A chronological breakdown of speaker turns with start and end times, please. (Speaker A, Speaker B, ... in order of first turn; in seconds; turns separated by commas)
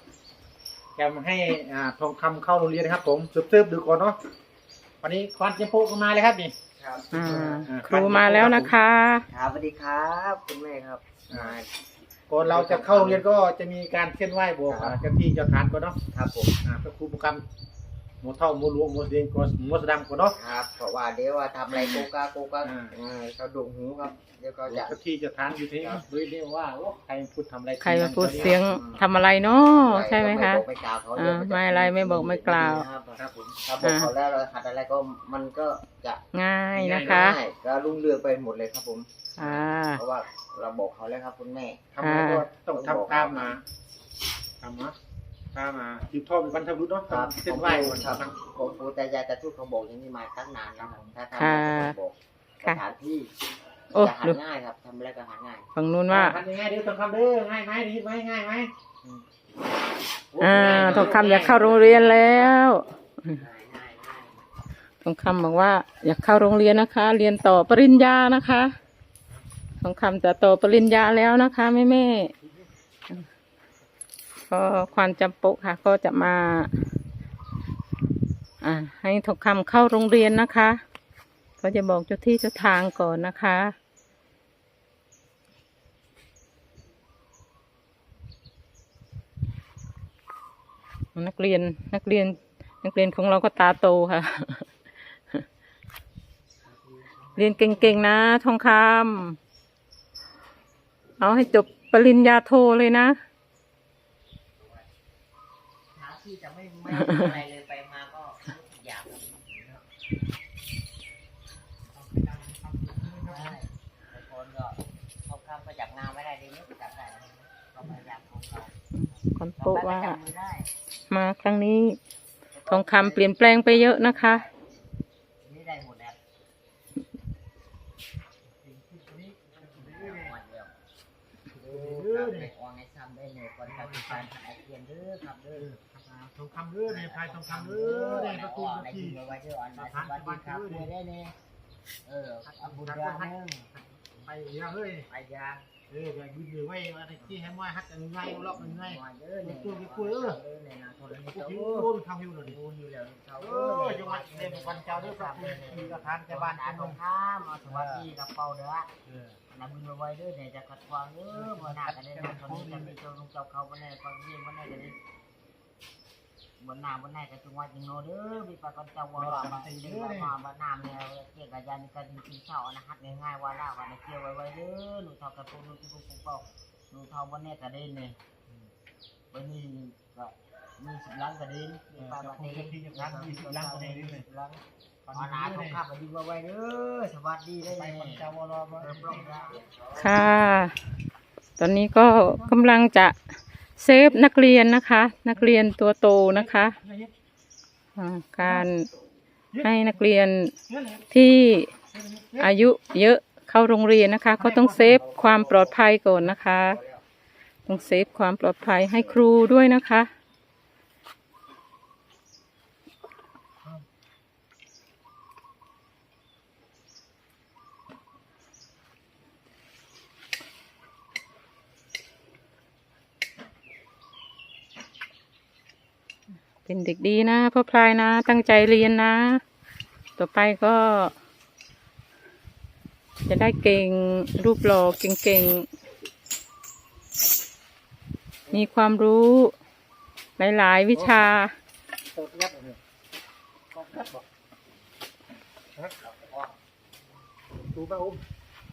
Speaker A: 1.0-4.2, Speaker A: 5.0-6.5, Speaker B: 6.8-7.7, Speaker C: 7.1-9.3, Speaker A: 7.7-8.7, Speaker B: 9.3-11.7, Speaker A: 11.3-11.6, Speaker A: 12.3-16.0, Speaker B: 12.4-13.2, Speaker B: 14.7-15.0, Speaker B: 16.1-16.6, Speaker A: 16.6-17.4, Speaker A: 18.2-20.4, Speaker B: 20.3-25.0, Speaker A: 22.6-22.9, Speaker A: 24.7-28.6, Speaker C: 27.8-30.6, Speaker B: 28.2-29.1, Speaker B: 29.8-36.2, Speaker C: 31.2-32.9, Speaker A: 33.2-33.6, Speaker C: 33.8-34.1, Speaker C: 36.3-37.4, Speaker A: 36.8-37.3, Speaker B: 36.9-41.9, Speaker C: 39.4-40.0, Speaker A: 41.9-43.6, Speaker C: 42.0-42.5, Speaker B: 42.7-43.5, Speaker A: 44.6-45.0, Speaker A: 45.5-48.4, Speaker B: 47.1-53.3, Speaker C: 51.4-51.9, Speaker C: 53.9-54.4, Speaker B: 53.9-55.7, Speaker C: 55.8-56.4, Speaker A: 56.1-58.7, Speaker A: 60.3-61.8, Speaker C: 60.4-63.4, Speaker B: 60.5-62.5, Speaker B: 63.3-64.4, Speaker C: 65.0-68.7, Speaker C: 69.8-72.3, Speaker C: 74.5-76.7, Speaker C: 78.6-80.8, Speaker C: 81.6-83.8, Speaker C: 91.2-94.7, Speaker B: 96.7-98.0, Speaker C: 97.4-99.4, Speaker C: 101.2-103.2, Speaker B: 105.9-109.8, Speaker C: 107.0-107.2, Speaker A: 111.9-113.6, Speaker B: 113.2-118.8, Speaker C: 118.9-120.2, Speaker B: 119.6-120.7, Speaker C: 121.1-122.0, Speaker B: 122.5-124.5, Speaker C: 122.7-124.5, Speaker B: 125.4-126.2, Speaker A: 128.6-130.3, Speaker B: 129.7-130.7, Speaker B: 131.5-135.7, Speaker A: 131.6-132.5, Speaker A: 133.7-134.3, Speaker A: 135.5-140.9, Speaker B: 136.9-141.3, Speaker B: 142.1-143.7, Speaker A: 142.5-145.1, Speaker B: 145.1-145.7, Speaker A: 145.9-150.4, Speaker B: 148.5-158.9, Speaker A: 151.3-152.6, Speaker A: 153.4-157.0, Speaker A: 157.7-158.1, Speaker A: 159.1-159.4, Speaker B: 159.5-165.0, Speaker A: 161.3-163.0, Speaker B: 166.6-178.2, Speaker A: 169.2-170.3, Speaker B: 179.3-190.2, Speaker A: 182.0-184.3, Speaker A: 185.1-185.8, Speaker A: 187.6-189.6, Speaker C: 190.0-190.8, Speaker C: 191.6-193.2, Speaker C: 193.8-196.8, Speaker A: 196.6-197.1, Speaker C: 198.0-198.9, Speaker A: 199.5-200.0, Speaker C: 199.6-200.5, Speaker A: 200.7-201.1, Speaker C: 201.1-201.7, Speaker A: 201.9-202.6, Speaker C: 202.4-206.8, Speaker A: 204.4-205.1, Speaker B: 205.0-205.8, Speaker B: 206.3-207.0, Speaker C: 207.7-210.1, Speaker C: 226.7-229.4, Speaker C: 230.2-231.2, Speaker C: 233.3-235.7, Speaker C: 238.5-239.5, Speaker C: 240.4-241.5, Speaker A: 242.1-242.8, Speaker A: 243.7-244.2, Speaker A: 245.8-246.4, Speaker B: 246.2-246.4, Speaker A: 247.7-248.2